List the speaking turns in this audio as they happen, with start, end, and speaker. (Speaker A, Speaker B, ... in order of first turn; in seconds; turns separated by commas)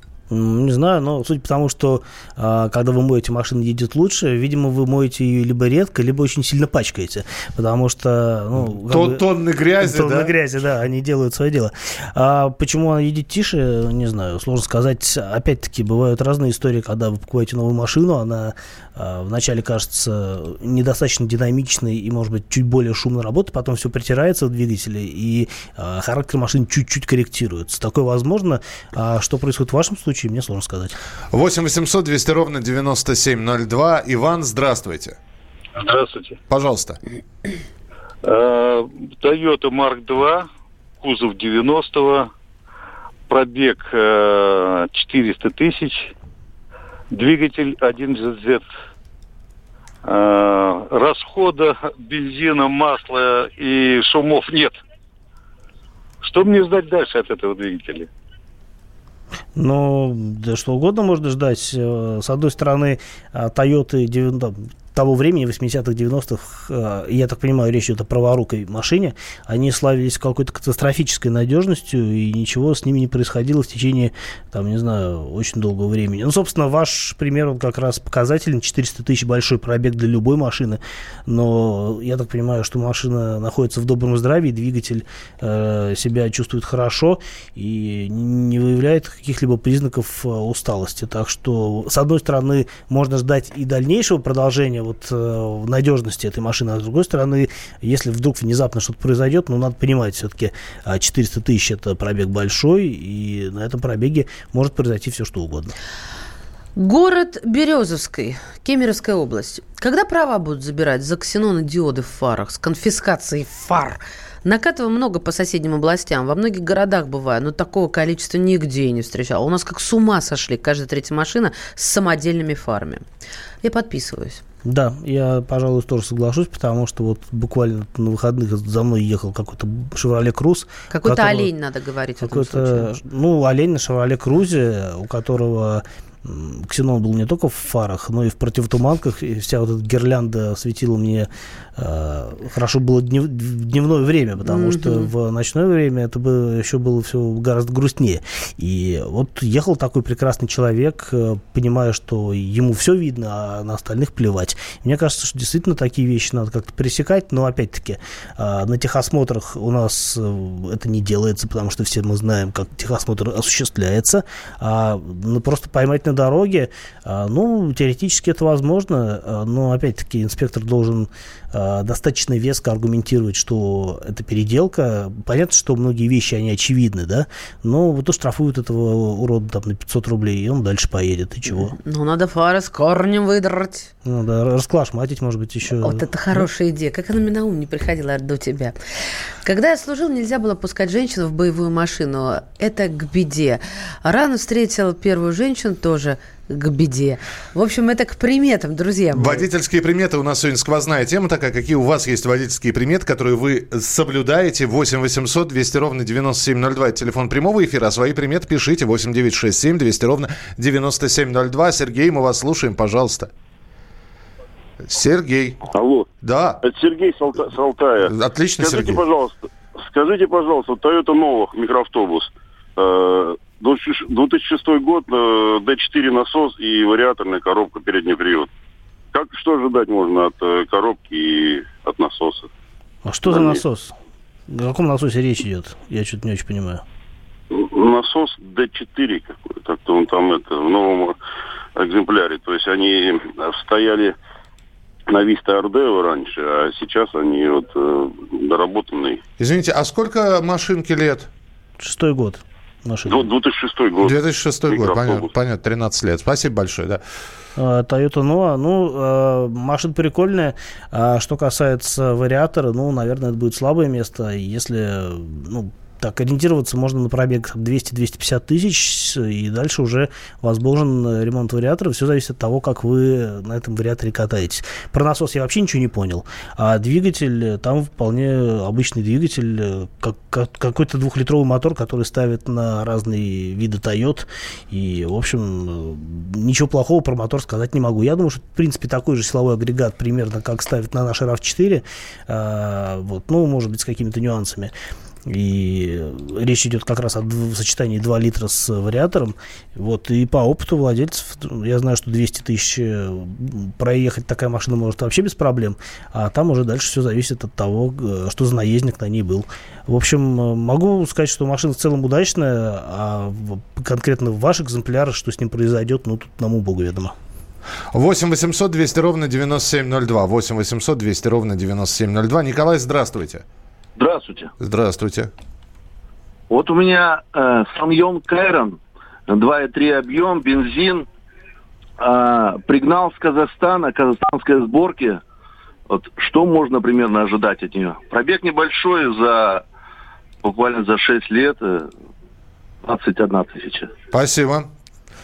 Speaker A: 0.3-9.2, Speaker B: 8.7-10.3, Speaker A: 9.8-31.0, Speaker B: 31.3-35.1, Speaker C: 35.8-36.4, Speaker B: 36.5-37.0, Speaker C: 38.2-40.5, Speaker C: 41.0-42.3, Speaker C: 43.3-46.1, Speaker C: 47.1-48.6, Speaker C: 50.0-54.8, Speaker C: 56.2-58.1, Speaker A: 59.5-105.7, Speaker D: 106.8-123.0, Speaker D: 123.6-124.4, Speaker A: 124.6-131.5, Speaker D: 130.9-132.9, Speaker A: 132.2-181.7, Speaker D: 144.4-145.1, Speaker D: 181.5-183.9, Speaker A: 184.0-186.4, Speaker D: 185.8-188.8, Speaker D: 189.4-199.4, Speaker B: 199.1-213.3, Speaker B: 214.9-215.6, Speaker E: 215.7-216.1, Speaker B: 216.2-216.6, Speaker E: 216.6-228.5, Speaker B: 218.1-219.0, Speaker E: 229.1-232.5, Speaker A: 233.0-233.9, Speaker A: 234.5-236.8, Speaker E: 237.5-241.2, Speaker E: 241.8-244.2, Speaker E: 245.1-249.2, Speaker B: 249.4-251.3, Speaker A: 251.8-253.3, Speaker E: 253.1-254.1, Speaker B: 254.0-257.0, Speaker E: 254.7-255.3, Speaker A: 257.6-294.7, Speaker A: 295.2-317.1, Speaker B: 317.9-323.4, Speaker F: 323.9-324.5, Speaker B: 324.6-325.3, Speaker F: 326.5-331.1, Speaker F: 332.0-335.2, Speaker F: 335.9-339.6, Speaker F: 340.4-341.9, Speaker F: 342.8-343.9, Speaker B: 344.1-344.7